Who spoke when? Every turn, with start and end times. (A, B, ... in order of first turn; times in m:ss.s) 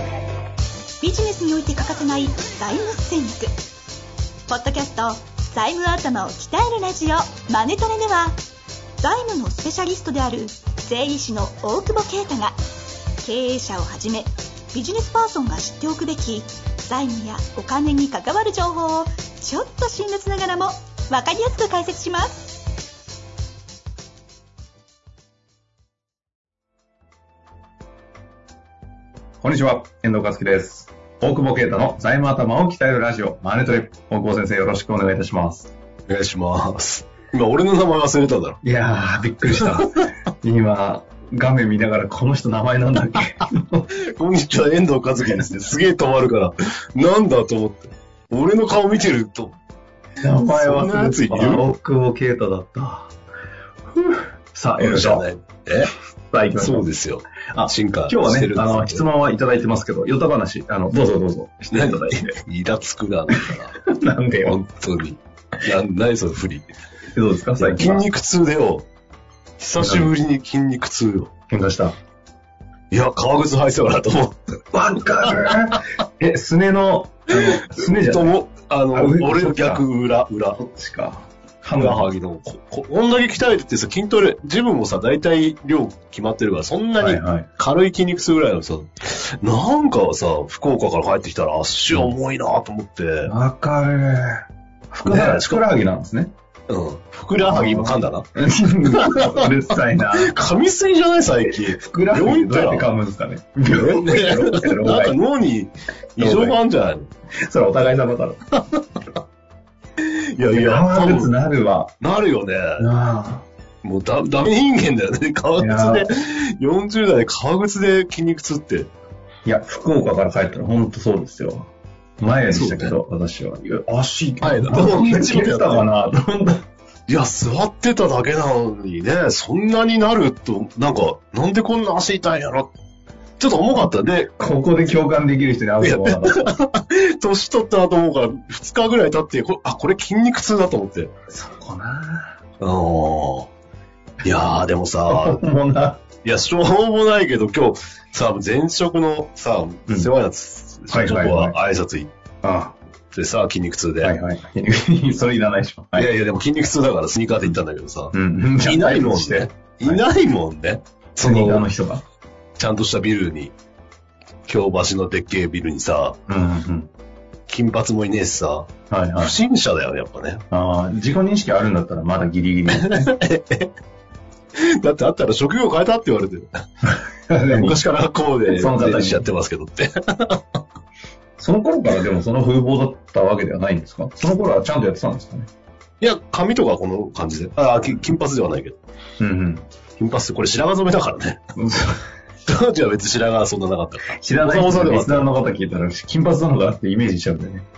0:01.0-0:03.5 A
0:04.5-0:08.4 A
0:09.0-0:12.6 A
0:13.2-0:22.6 A
0:29.4-0:35.7 B
0:36.1-0:38.6 C
0:38.6-0:43.9 B
0:39.6-0:40.0 C
0:44.1-0:49.6 C
0:45.2-0:45.6 B
0:50.2-0:53.1 B
0:50.2-0:51.6 C
0:54.0-0:55.2 B
0:54.8-0:55.9 C
0:56.3-0:56.9 B
0:56.6-0:59.0 C
0:57.5-1:02.3 B
1:01.7-1:03.8 C
1:03.3-1:04.6 B
1:04.4-1:06.7 C
1:07.1-1:08.0 B
1:07.6-1:08.8 C
1:09.6-1:11.3 C
1:09.8-1:10.1 B
1:11.5-1:12.0 B
1:12.9-1:14.4 C
1:14.7-1:18.3 B
1:15.2-1:15.8 C
1:17.3-1:20.6 C
1:18.9-1:19.8 B
1:20.6-1:22.1 B
1:21.7-1:33.3 C
1:27.0-1:27.5 B
1:33.2-1:36.3 B
1:35.0-1:35.6 C
1:36.7-1:38.3 C
1:37.4-1:40.3 B
1:38.9-1:42.9 C
1:41.6-1:45.2 B
1:43.7-1:47.1 C
1:46.2-1:46.6 B
1:47.5-1:48.4 B
1:50.0-1:51.3 C
1:50.5-1:51.9 B
1:52.0-1:52.8 C
1:52.8-1:53.4 B
1:53.8-1:58.9 C
1:55.6-1:56.1 B
1:59.4-2:06.6 B
2:02.5-2:03.0 C
2:04.4-2:05.8 C
2:07.1-2:12.7 C
2:13.4-2:14.3 C
2:14.4-2:16.5 B
2:15.8-2:21.1 C
2:21.3-2:22.4 B
2:22.6-2:23.5 C
2:24.2-2:25.4 C
2:25.1-2:26.0 B
2:26.2-2:32.1 C
2:30.9-2:31.6 B
2:32.4-2:32.8 B
2:33.1-2:34.1 C
2:34.0-2:36.1 B
2:36.0-2:41.7 C
2:38.1-2:40.0 B
2:41.2-2:42.0 B
2:42.6-2:43.5 C
2:44.4-2:46.2 C
2:46.3-2:46.9 B
2:47.5-2:50.4 C
2:48.9-2:49.4 B
2:50.5-2:53.1 B
2:52.7-2:53.7 C
2:54.5-2:56.5 C
2:56.8-2:57.8 B
2:57.5-3:00.4 C
2:58.4-2:59.2 B
3:01.4-3:05.5 B
3:06.0-3:08.8 C
3:09.2-3:09.7 B
3:10.0-3:11.4 C
3:11.6-3:12.0 B
3:12.5-3:15.3 C
3:14.1-3:17.6 B